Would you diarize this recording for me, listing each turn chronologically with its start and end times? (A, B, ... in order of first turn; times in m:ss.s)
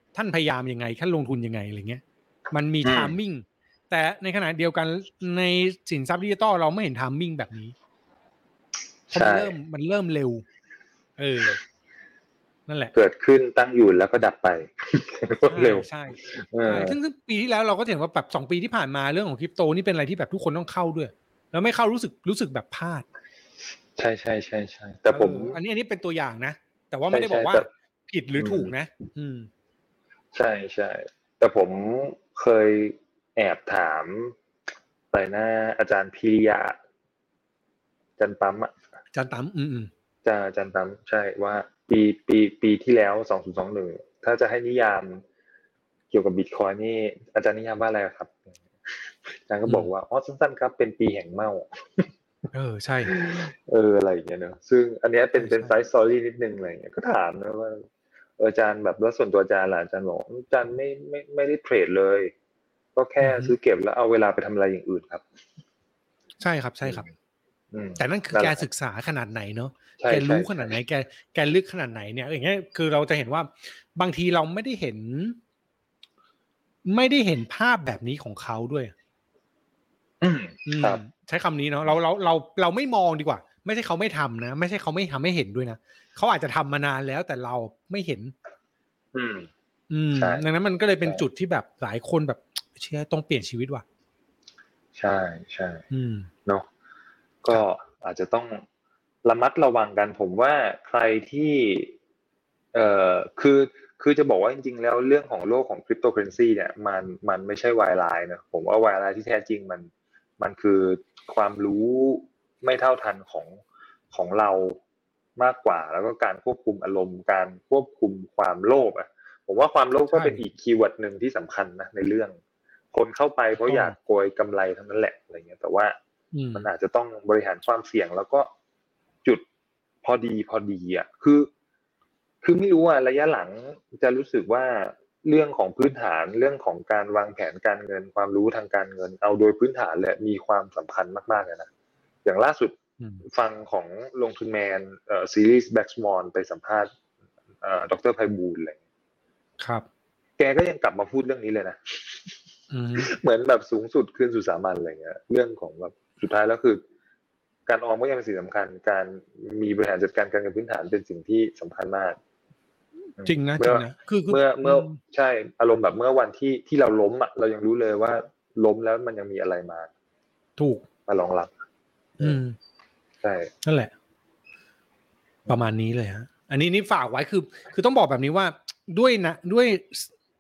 0:00.1-0:07.8 A
0:02.8-0:03.1 B
0:09.1-0:09.5 B
0:09.1-0:10.4 A
0:11.2-0:11.6 A
0:12.7-0:12.9 A
0:12.9-0:17.0 B
0:15.5-0:23.1 A
0:24.0-0:25.6 B
0:25.1-0:29.5 A
0:27.1-0:27.7 B
0:28.4-0:28.7 B
0:30.3-0:34.4 B
0:35.1-0:36.8 B
0:38.2-0:38.8 B
0:39.1-0:39.9 A
0:40.2-0:45.2 B
0:46.1-0:52.1 B
0:52.5-0:53.2 A
0:53.1-0:57.9 B
0:55.4-0:55.8 A
0:58.4-1:02.3 B
1:03.0-1:05.2 B
1:03.2-1:03.5 A
1:06.4-1:07.1 A
1:07.7-1:08.6 B
1:08.0-1:15.4 A
1:10.0-1:10.8 B
1:16.9-1:18.9 A
1:20.2-1:21.0 B
1:20.7-1:28.3 A
1:29.1-1:29.5 B
1:29.9-1:33.8 A
1:30.2-1:30.4 B
1:35.0-1:35.8 B
1:35.9-1:36.3 A
1:37.4-1:38.6 B
1:39.2-1:41.9 B
1:42.7-1:53.6 B
1:54.1-1:54.8 B
1:55.4-2:02.4 B
2:00.1-2:00.4 A
2:02.9-2:06.0 B
2:03.6-2:04.0 A
2:06.3-2:06.7 A
2:06.5-2:08.5 B
2:10.0-2:11.5 B
2:12.4-2:21.7 B
2:22.2-2:26.9 B
2:27.6-2:28.8 B
2:29.6-2:29.9 A
2:30.4-2:32.4 B
2:32.7-2:33.1 A
2:33.0-2:36.8 B
2:37.7-2:42.2 B
2:43.2-2:49.9 B
2:43.2-2:45.0 A
2:50.6-2:50.9 A
2:51.1-2:51.5 B
2:52.2-2:52.6 A
2:53.2-2:53.5 B
2:53.6-2:53.9 A
2:55.5-3:00.1 A